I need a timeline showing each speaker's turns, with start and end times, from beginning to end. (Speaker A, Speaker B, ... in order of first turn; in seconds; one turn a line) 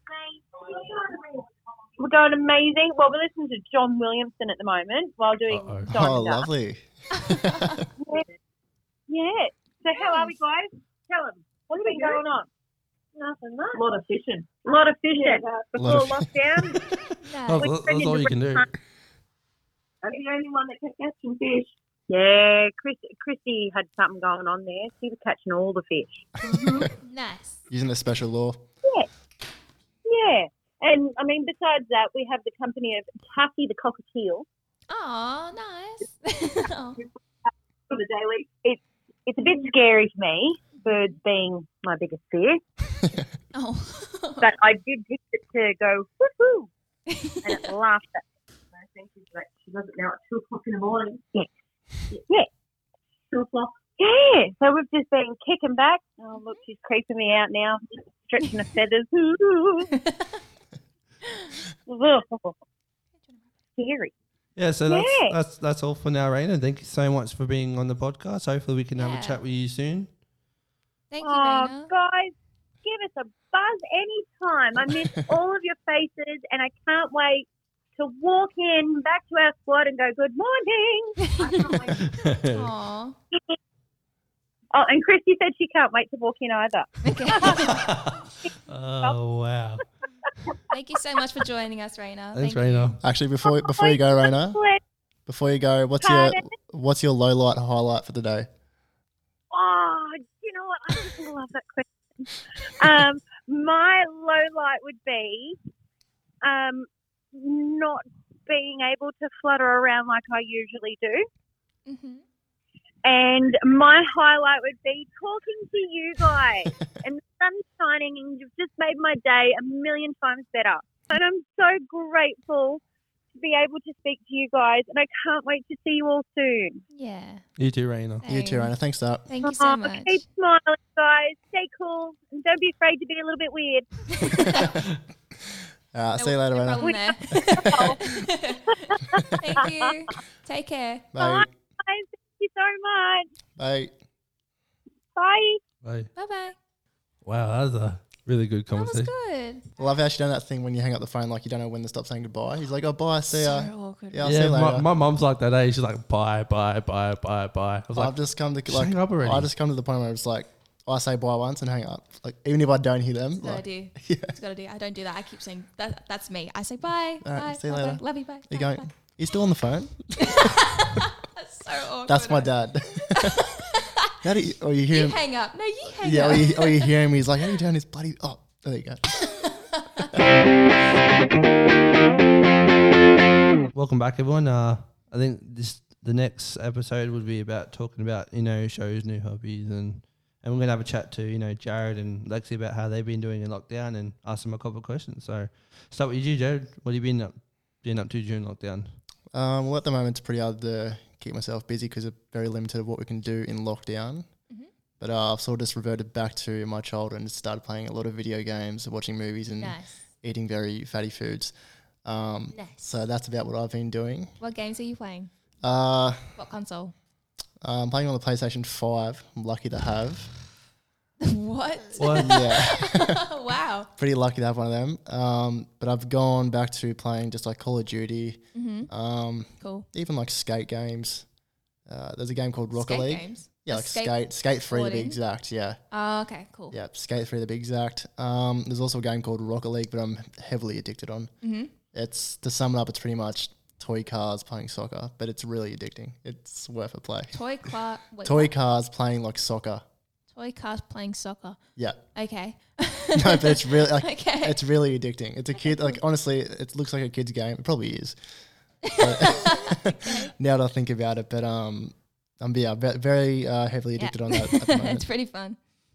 Speaker A: 0.6-1.4
Speaker B: 2.0-6.5
Speaker C: 5.5-5.9
Speaker D: 5.9-7.9
Speaker E: 7.1-7.8
Speaker B: 8.0-8.3
Speaker B: 9.1-12.5
Speaker E: 9.9-10.3
Speaker A: 11.7-12.3
Speaker B: 13.1-13.8
Speaker A: 13.7-16.0
Speaker B: 14.7-16.9
Speaker D: 15.8-16.3
Speaker E: 17.2-17.7
Speaker C: 17.5-18.7
Speaker B: 17.6-18.7
Speaker A: 20.0-21.7
Speaker B: 22.1-26.9
Speaker A: 26.4-26.9
Speaker D: 26.5-26.9
Speaker E: 26.9-27.6
Speaker D: 27.7-28.6
Speaker B: 30.0-34.5
Speaker E: 34.9-37.0
Speaker A: 37.9-38.5
Speaker B: 38.6-42.6
Speaker E: 43.5-44.5
Speaker B: 44.4-46.7
Speaker E: 47.1-47.7
Speaker B: 47.4-48.2
Speaker A: 48.7-51.2
Speaker A: 53.3-53.8
Speaker B: 54.0-59.9
Speaker E: 60.0-60.4
Speaker E: 61.2-61.5
Speaker B: 61.9-62.6
Speaker B: 63.8-64.1
Speaker C: 64.5-70.1
Speaker B: 64.9-65.3
Speaker E: 69.0-69.4
Speaker E: 71.1-71.9
Speaker B: 71.2-81.8
Speaker E: 81.3-81.8
Speaker A: 81.4-82.1
Speaker C: 82.0-82.7
Speaker E: 82.5-83.2
Speaker B: 84.7-89.2
Speaker E: 87.0-87.8
Speaker C: 87.4-89.8
Speaker E: 90.7-93.0
Speaker C: 92.3-93.0
Speaker D: 93.0-94.6
Speaker B: 93.5-94.8
Speaker D: 95.2-98.5
Speaker B: 96.0-96.4
Speaker B: 99.5-105.5
Speaker B: 106.4-111.2
Speaker E: 111.8-112.2
Speaker B: 113.0-122.8
Speaker B: 123.3-126.8
Speaker E: 126.9-127.4
Speaker C: 127.6-128.2
Speaker E: 128.2-128.7
Speaker D: 128.3-129.2
Speaker E: 129.3-130.2
Speaker B: 129.4-134.8
Speaker E: 134.2-134.7
Speaker D: 134.3-134.8
Speaker D: 135.9-137.9
Speaker E: 136.2-138.8
Speaker B: 136.8-138.1
Speaker B: 138.7-139.8
Speaker E: 139.4-141.2
Speaker D: 141.1-141.5
Speaker B: 141.2-143.3
Speaker D: 143.6-143.9
Speaker B: 145.1-145.6
Speaker C: 145.8-146.1
Speaker E: 146.2-146.6
Speaker C: 147.2-149.1
Speaker E: 148.7-149.7
Speaker D: 149.8-154.8
Speaker E: 153.3-154.3
Speaker C: 154.2-159.5
Speaker D: 157.9-164.3
Speaker E: 163.4-168.9
Speaker D: 167.2-171.0
Speaker E: 170.2-172.5
Speaker D: 172.1-173.5
Speaker E: 173.1-174.2
Speaker D: 174.2-175.2
Speaker E: 174.9-176.9
Speaker D: 176.0-179.5
Speaker E: 179.2-180.1
Speaker C: 183.7-198.9
Speaker D: 199.3-204.3
Speaker D: 205.0-211.5
Speaker E: 209.6-210.0
Speaker D: 212.0-214.3
Speaker E: 212.5-212.9
Speaker E: 214.4-215.3
Speaker D: 215.6-216.4
Speaker E: 216.3-216.9
Speaker D: 217.6-220.3
Speaker E: 221.2-223.9
Speaker C: 222.0-222.4
Speaker D: 222.1-223.2
Speaker D: 224.0-231.2
Speaker E: 228.5-228.9
Speaker E: 229.6-229.8
Speaker D: 231.8-235.8
Speaker E: 232.7-235.2
Speaker E: 235.9-236.8
Speaker D: 236.7-241.3
Speaker E: 241.4-241.7
Speaker D: 241.9-247.4
Speaker E: 247.3-248.5
Speaker D: 248.2-249.8
Speaker E: 250.3-251.6
Speaker E: 252.1-254.6
Speaker D: 253.1-258.2
Speaker E: 258.8-260.3
Speaker D: 258.9-265.1
Speaker E: 264.0-265.6